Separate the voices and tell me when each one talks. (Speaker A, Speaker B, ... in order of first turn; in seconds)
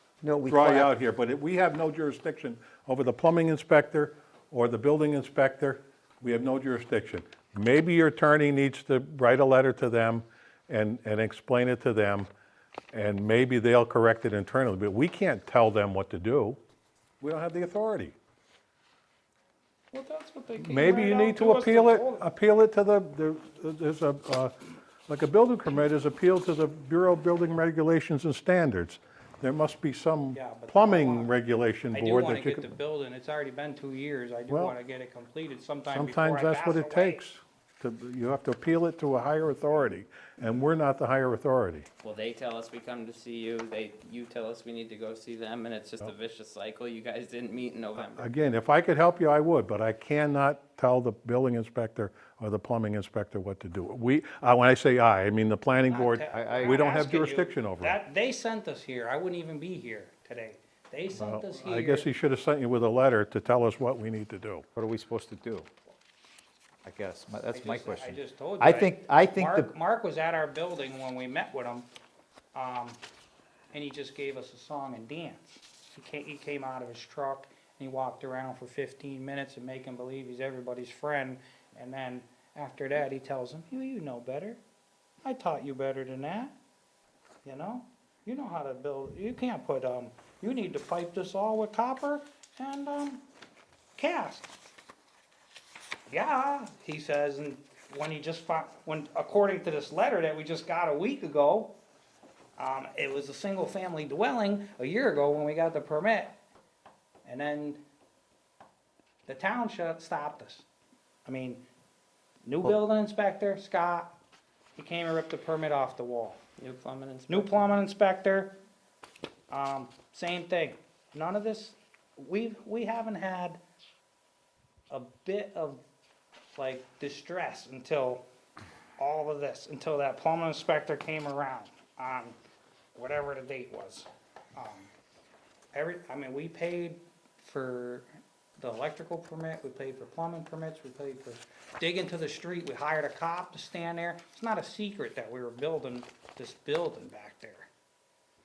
Speaker A: 0.2-0.9, 56.3-56.9, 64.8-65.7, 66.8-69.7
Speaker B: 0.4-12.3, 12.9-16.6, 17.2-18.1, 20.6-24.5, 25.1-32.7, 34.5-34.8, 35.9-41.9, 48.0-58.0, 61.1-64.7
Speaker C: 19.9-22.3, 30.3-31.3, 31.9-37.2, 55.9-62.1, 67.5-71.9, 72.5-73.0, 73.7-84.6, 85.2-86.5, 87.4-93.2, 94.0-94.5, 96.1-101.7, 102.6-106.3, 107.2-107.8, 109.3-110.7, 111.2-111.6, 112.4-114.1, 114.8-116.4, 117.3-118.5, 119.5-123.6, 124.9-125.8, 126.6-128.2, 129.0-132.4, 132.9-134.9, 135.7-138.1, 138.6-147.7
Speaker D: 42.0-48.3, 116.6-117.7